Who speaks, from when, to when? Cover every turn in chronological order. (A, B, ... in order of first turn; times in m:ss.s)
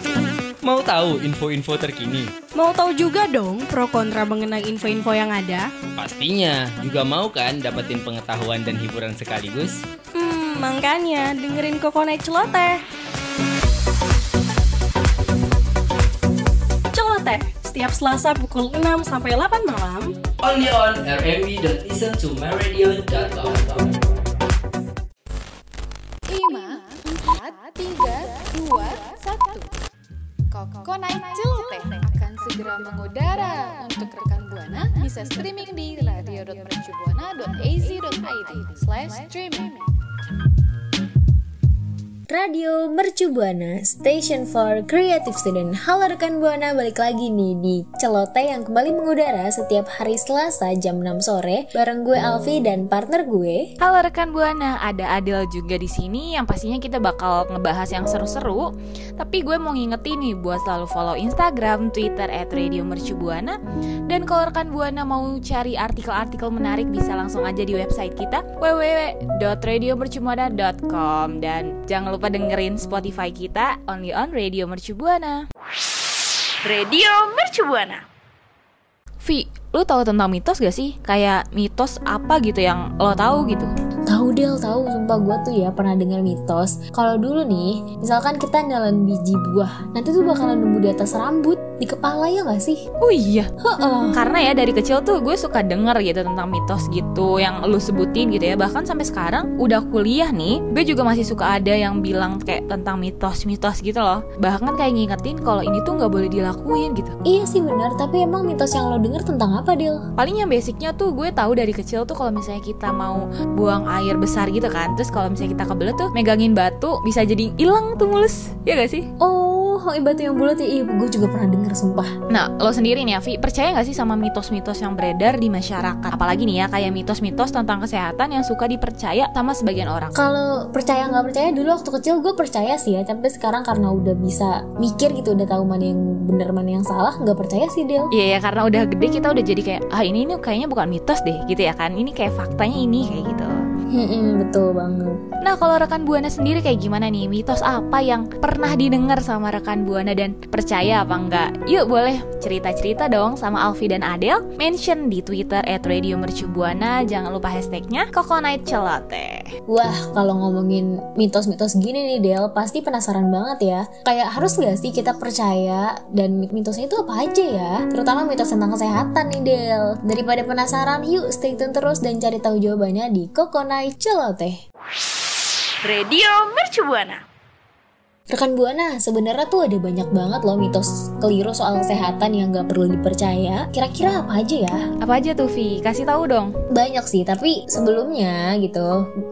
0:00.6-0:02.3 A
0:02.6-0:05.6 B
0:06.0-0:09.8 A
0:10.2-0:12.8 B
0:16.9-0:20.1 B
0:20.4-0:24.0 A
0:26.3-0:26.7 C
0:27.7-0:29.3 C
0:30.6-0:39.6 C
0:32.0-0:33.3 D
0:33.9-0:36.0 D
0:36.6-0:36.9 D
0:37.4-0:39.0 D
0:42.3-0:53.7 E
0:53.8-1:15.4 D
1:16.6-1:18.0 F
1:19.2-1:23.7 D
1:24.1-1:32.8 E
1:33.0-1:33.5 D
1:33.6-1:34.2 E
1:34.1-1:47.1 D
1:47.3-1:50.0 E
1:50.2-1:59.1 D
1:59.2-2:02.1 E
2:02.3-2:10.2 D
2:10.2-2:18.1 E
2:18.1-2:23.6 D
2:23.9-2:25.2 E
2:25.4-2:39.4 D
2:39.7-2:54.6 E
2:55.8-2:57.2 F
2:58.3-3:04.8 E
3:05.0-3:06.5 D
3:06.7-3:08.9 E